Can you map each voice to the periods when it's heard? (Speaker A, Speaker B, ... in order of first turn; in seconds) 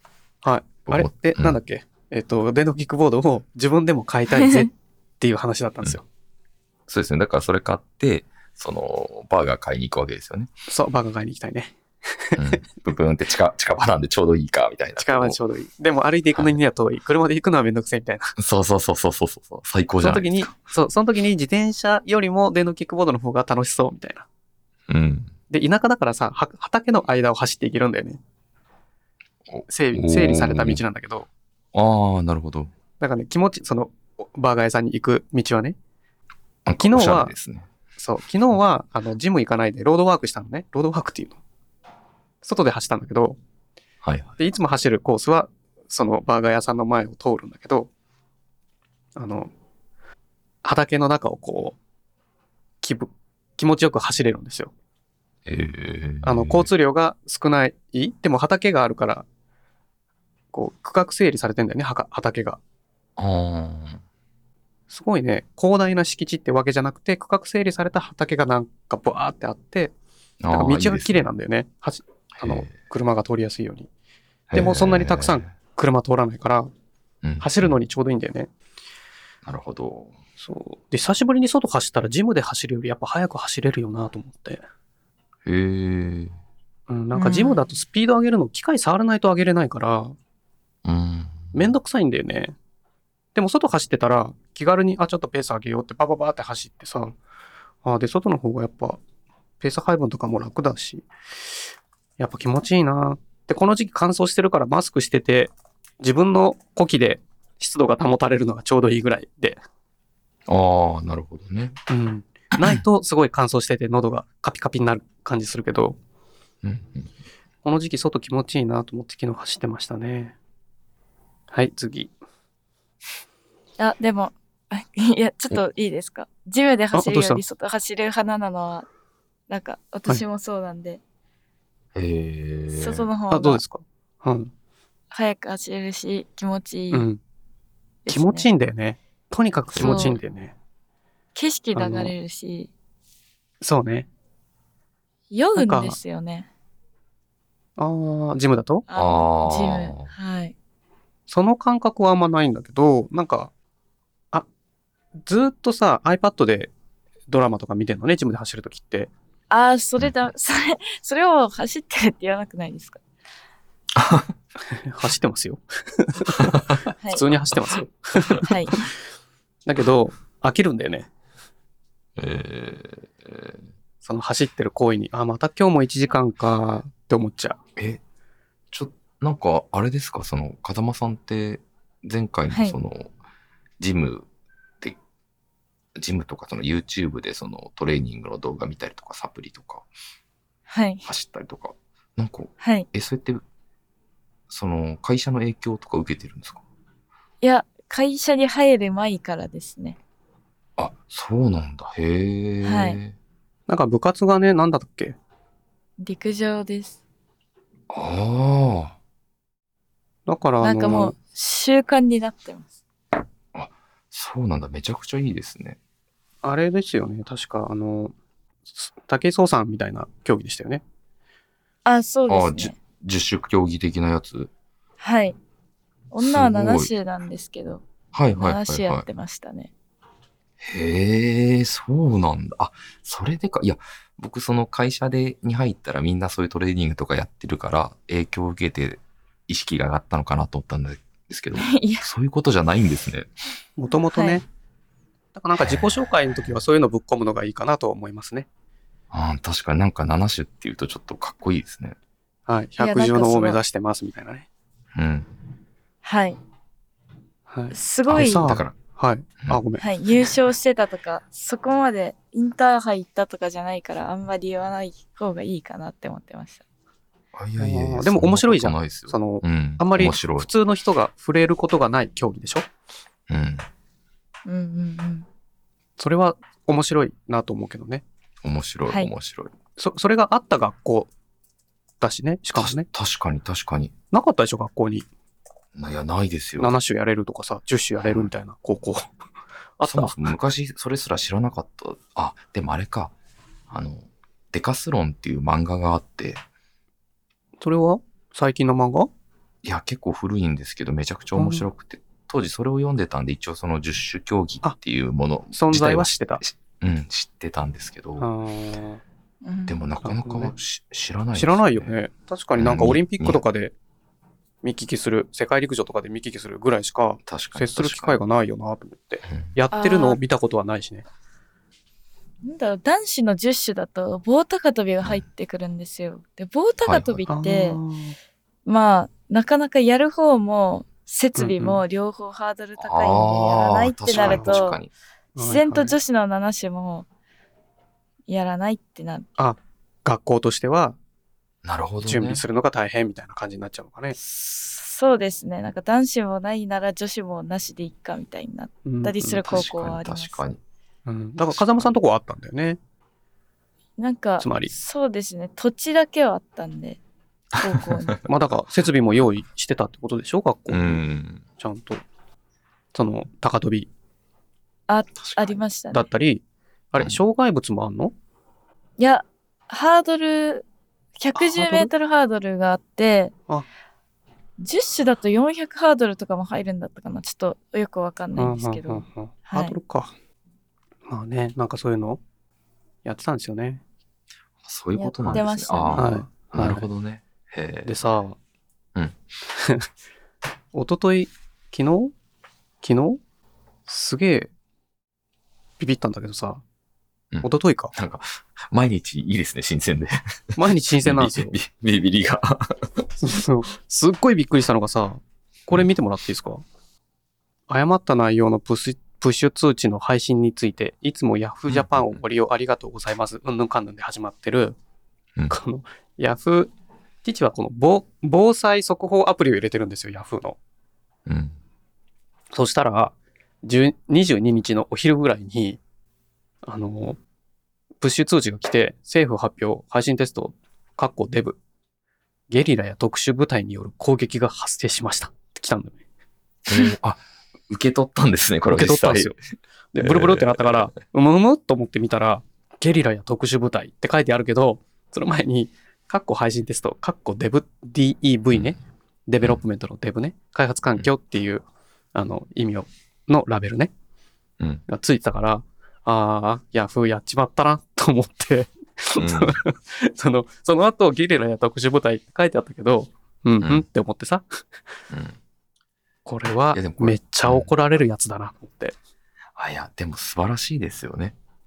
Speaker A: 0.4-6.0, 10.7-12.6, 15.0-18.3, 20.0-24.2, 25.5-28.2, 29.7-31.3, 33.0-35.8, 36.8-37.3, 38.0-41.4, 42.4-43.4, 44.4-47.9, 49.1-49.5, 50.6-51.8, 52.8-54.7, 56.2-59.2, 60.5-62.6, 64.9-69.9, 70.5-73.9, 74.5-76.7, 77.4-78.5, 80.4-84.6, 86.9-90.2, 91.5-92.5, 93.3-97.2, 97.8-99.0, 99.6-101.1, 102.2-109.6, 111.9-116.0, 117.6-120.3, 121.5-122.1, 126.9-127.4, 133.3-134.5, 136.9-137.2, 138.1-140.5, 141.7-142.1, 143.6-144.1, 145.5-146.0, 147.8-148.8, 151.3-153.5, 155.2-156.7, 157.3-159.1, 164.7-168.6, 169.7-171.1, 174.0-177.6, 203.7-205.2, 210.3-211.1, 216.4-218.1, 218.7-220.8, 243.8-244.4, 245.3-248.5, 252.5-254.5, 257.5-259.9, 267.6-272.7, 276.0-278.0, 279.8-281.1, 282.0-282.9, 284.1-285.1, 286.6-289.1, 289.8-290.2, 297.6-299.1, 301.3-301.6, 305.5-306.4, 308.2-309.0, 310.0-310.5, 311.3-313.7, 314.6-321.0, 327.3-328.1, 331.4-331.8, 334.1-334.6, 335.4-335.9, 339.4-341.0, 342.0-344.1, 348.8-349.4, 351.1-352.8, 354.4-354.7, 358.2-361.0, 361.6-362.0, 362.9-363.9, 365.3-368.1, 371.3-371.9, 378.4-380.1, 381.1-382.2, 383.0-383.8, 385.9-386.9, 387.8-388.4, 389.5-389.9, 390.7-392.1, 392.8-393.2, 393.9-394.5, 395.8-396.6, 397.4-397.9, 400.6-401.6, 403.2-406.6, 407.7-414.8, 415.5-416.7, 417.2-420.6, 422.5-425.8, 426.6-427.2, 428.0-431.6, 432.5-436.0, 438.7-439.4, 439.9-451.6, 452.1-453.9, 454.9-464.4, 466.2-468.9
Speaker B: 0.9-1.6, 6.9-10.5, 12.3-15.4, 18.4-20.5, 24.9-25.3, 29.5-30.8, 31.7-32.7, 36.6-37.7, 44.0-44.3, 55.5-56.7, 63.2-64.0, 70.4-71.3, 72.3-72.7, 74.5-75.5, 77.2-77.7, 79.4-80.1, 85.4-86.3, 90.8-91.5, 110.5-111.7, 116.6-117.1, 131.9-133.1, 139.7-140.2, 148.9-150.1, 163.9-164.3, 172.2-173.6, 178.7-183.1, 183.8-184.3, 186.0-189.9, 191.0-193.4, 194.5-196.6, 200.8-203.1, 207.9-208.9, 213.5-215.8, 222.3-224.5, 226.2-226.9, 228.1-229.0, 230.6-243.3, 245.6-246.6, 249.1-251.9, 254.9-255.3, 258.1-258.7, 267.3-270.5, 273.3-273.6, 278.4-279.5, 282.6-283.9, 285.7-286.7, 288.0-288.3, 289.8-293.1, 293.7-296.4, 299.6-308.3, 309.7-311.9, 312.6-313.4, 317.3-318.2, 326.8-327.3, 332.8-334.9, 341.6-342.4, 349.4-350.6, 357.6-358.1, 360.7-361.4, 384.6-388.0, 397.3-403.1, 411.7-412.2, 421.2-421.6, 436.7-439.4, 440.0-440.9, 459.1-459.6, 465.1-465.4, 466.7-467.7, 469.6-471.3
Speaker C: 4.3-4.7, 87.1-87.7, 123.8-128.9, 129.5-131.0, 132.7-133.6, 135.1-137.1, 138.1-138.5, 139.8-140.2, 141.3-142.7, 145.3-146.5, 148.9-150.5, 159.5-163.0, 168.4-168.8, 182.5-182.7, 190.7-191.0, 192.6-192.9, 197.4-200.0, 202.6-203.0, 206.0-207.0, 210.6-212.7, 221.8-222.7, 225.0-225.3, 226.1-227.8, 228.3-229.7, 241.6-242.0, 244.1-244.4, 252.8-253.6, 256.0-256.4, 257.7-258.5, 259.8-266.6, 274.4-275.2, 309.4-309.9, 319.7-320.2, 322.4-327.8, 328.6-334.8, 335.4-337.1, 338.3-339.3, 344.2-350.4, 354.0-357.0, 357.6-358.2, 364.9-366.1, 369.0-370.6, 371.2-373.3, 374.6-379.8, 384.9-386.1